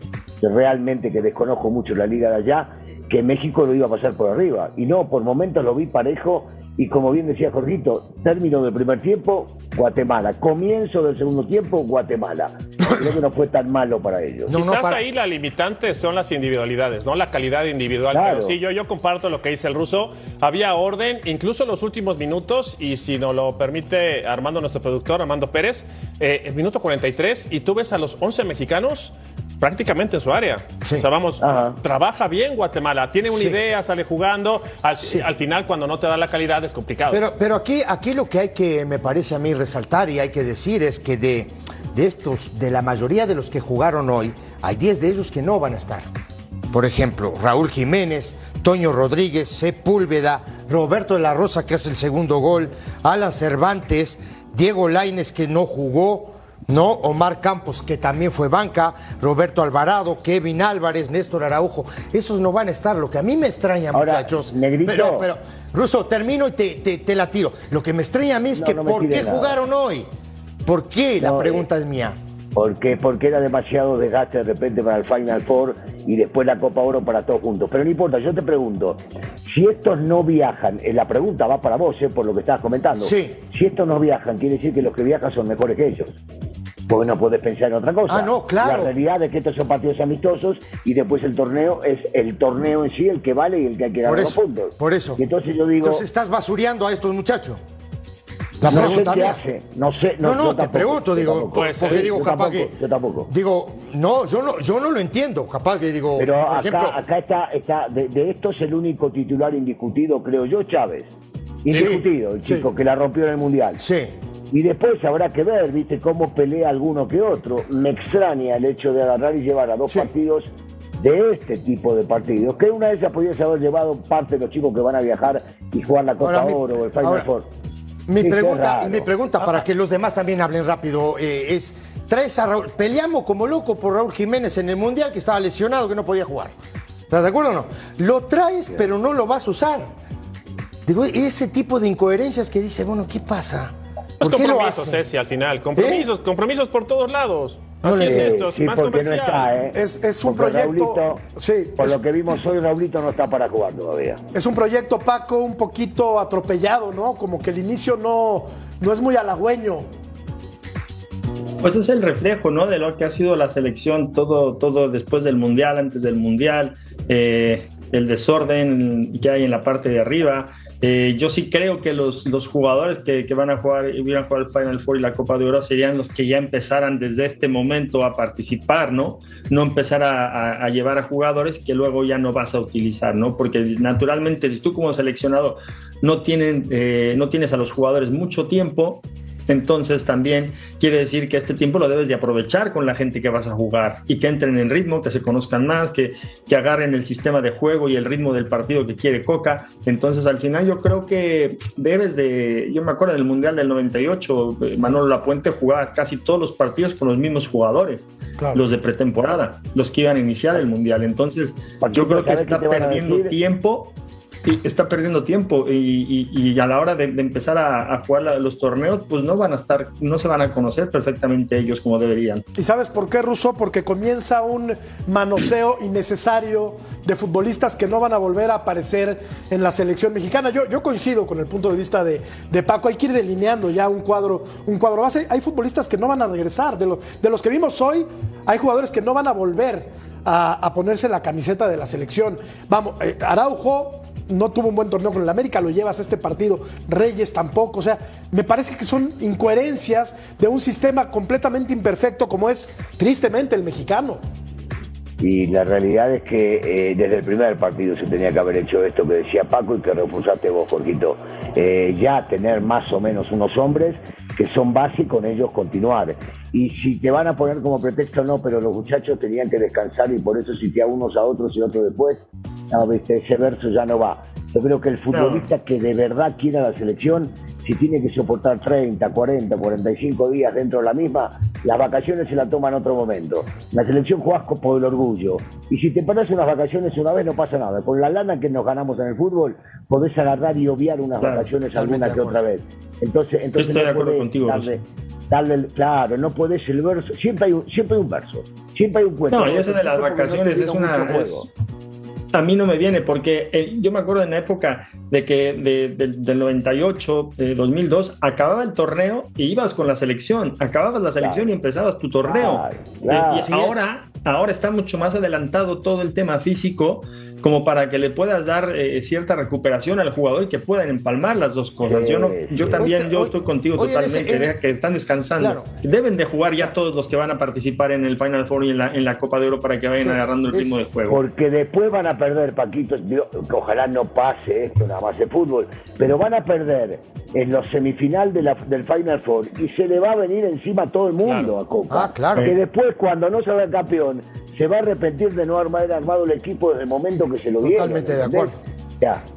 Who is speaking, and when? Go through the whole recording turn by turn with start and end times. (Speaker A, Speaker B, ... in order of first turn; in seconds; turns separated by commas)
Speaker A: 0.4-14.5, Speaker B: 12.8-13.1, Speaker B: 14.5-15.0, Speaker C: 14.5-37.2, Speaker A: 18.1-18.6, Speaker A: 31.4-31.8, Speaker B: 33.3-33.6, Speaker B: 37.1-46.1, Speaker B: 46.7-70.1, Speaker A: 63.9-65.3, Speaker A: 68.5-69.6, Speaker B: 70.7-72.2, Speaker A: 71.2-71.7, Speaker A: 72.5-86.2, Speaker B: 83.0-83.4, Speaker A: 86.9-96.0, Speaker B: 88.1-88.9, Speaker B: 94.0-95.2, Speaker B: 95.8-97.6, Speaker B: 98.6-99.4, Speaker A: 98.6-103.3, Speaker B: 100.2-102.7, Speaker C: 101.5-102.1, Speaker B: 103.3-107.0, Speaker A: 106.2-111.1, Speaker A: 111.6-113.8, Speaker B: 111.7-112.0, Speaker B: 113.8-114.1, Speaker A: 114.5-127.5, Speaker B: 126.2-127.2, Speaker B: 128.1-136.5, Speaker A: 128.2-129.4, Speaker B: 137.1-139.9, Speaker B: 140.8-145.0, Speaker C: 144.2-149.5, Speaker B: 145.8-146.1, Speaker B: 147.8-148.4, Speaker A: 147.9-151.2, Speaker D: 149.7-151.9, Speaker A: 151.8-154.2, Speaker D: 154.3-159.8, Speaker E: 161.6-213.9, Speaker A: 211.8-213.4, Speaker E: 214.4-222.4, Speaker D: 222.6-254.2, Speaker A: 255.2-301.5, Speaker E: 275.1-275.5, Speaker E: 291.2-291.5, Speaker B: 291.7-292.4, Speaker E: 293.5-294.7, Speaker E: 299.3-301.5, Speaker E: 302.3-331.2, Speaker A: 311.2-311.5, Speaker A: 312.2-313.5, Speaker B: 313.3-313.8, Speaker A: 321.9-322.8, Speaker B: 322.7-324.5, Speaker B: 325.4-325.7, Speaker B: 330.0-330.8, Speaker A: 331.1-349.2, Speaker C: 341.2-341.5, Speaker B: 341.9-342.5, Speaker B: 347.6-348.6